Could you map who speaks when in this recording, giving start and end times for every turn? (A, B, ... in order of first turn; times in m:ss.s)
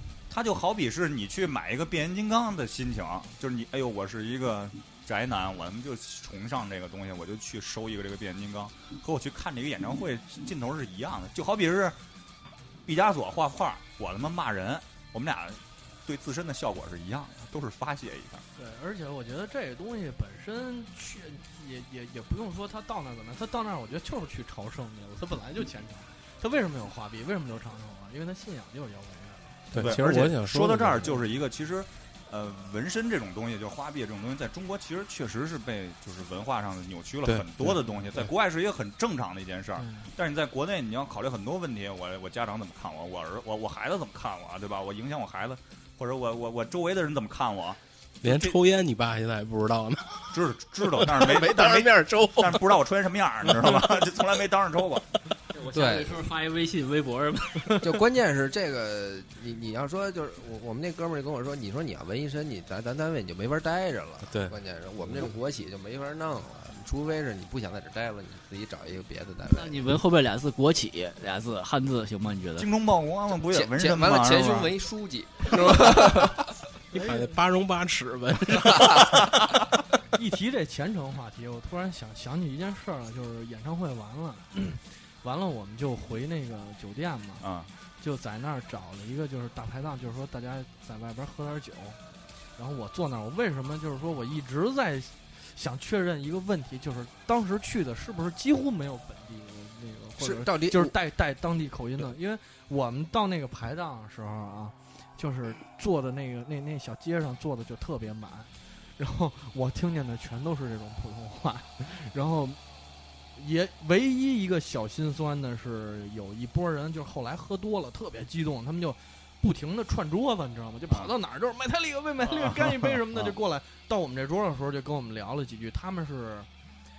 0:00.3-0:12.0 A
0:12.8-0:18.4 A
0:18.6-0:29.7 B
0:29.7-0:31.2 C
0:29.7-0:48.6 A
0:37.3-0:37.8 C
0:39.8-0:40.1 B
0:48.2-0:52.8 C
0:50.3-0:55.1 A
0:53.4-0:54.1 C
0:55.5-0:58.0 D
0:55.7-0:56.2 E
0:57.8-1:09.8 E
1:04.2-1:05.3 C
1:09.5-1:12.7 D
1:12.6-1:14.8 A
1:13.4-1:16.5 E
1:16.9-1:19.4 C
1:16.9-1:17.3 B
1:18.5-1:19.2 E
1:20.1-1:27.4 B
1:27.4-1:27.7 A
1:28.0-1:32.0 B
1:32.6-1:52.6 B
1:40.2-1:41.0 E
1:53.4-2:06.5 B
2:02.3-2:02.8 A